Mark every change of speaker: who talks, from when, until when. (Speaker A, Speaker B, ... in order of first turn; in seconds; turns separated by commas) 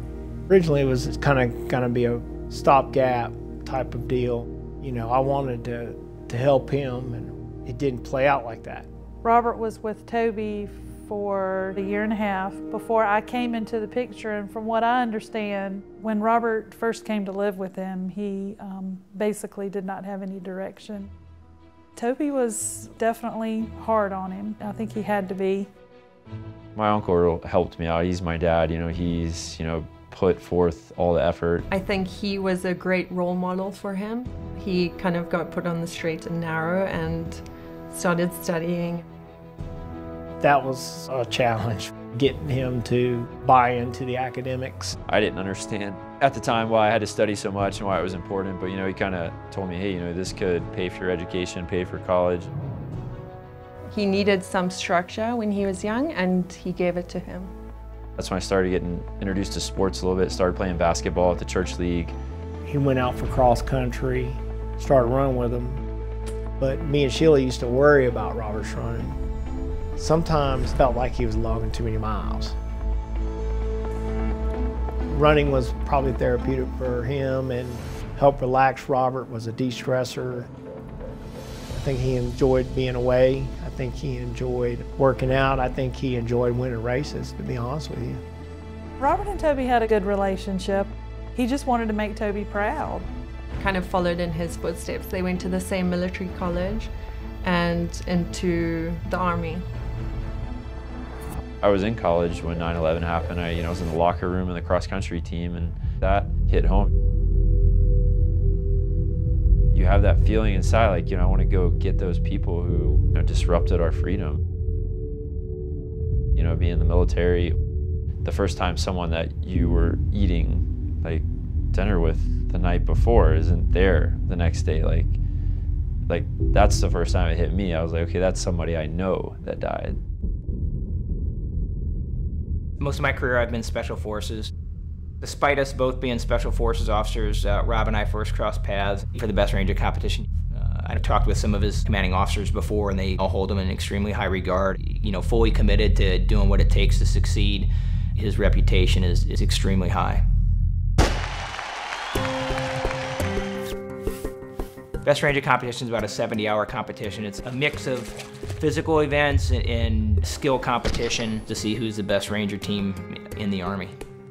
Speaker A: 0.5-8.9, Speaker B: 9.2-21.1, Speaker B: 21.9-25.7, Speaker C: 26.7-31.7, Speaker D: 31.7-39.0, Speaker A: 40.4-45.0, Speaker C: 45.1-52.5, Speaker D: 53.9-57.5, Speaker C: 58.2-62.1, Speaker A: 62.6-65.8, Speaker A: 66.6-69.2, Speaker A: 70.0-72.5, Speaker A: 75.1-80.5, Speaker A: 81.7-88.2, Speaker B: 89.0-93.1, Speaker D: 93.6-96.9, Speaker D: 97.4-99.7, Speaker C: 101.6-106.9, Speaker C: 109.7-114.4, Speaker C: 116.3-117.6, Speaker C: 118.2-125.2, Speaker C: 126.1-130.0, Speaker E: 132.8-134.5, Speaker E: 135.2-150.2, Speaker E: 155.0-163.9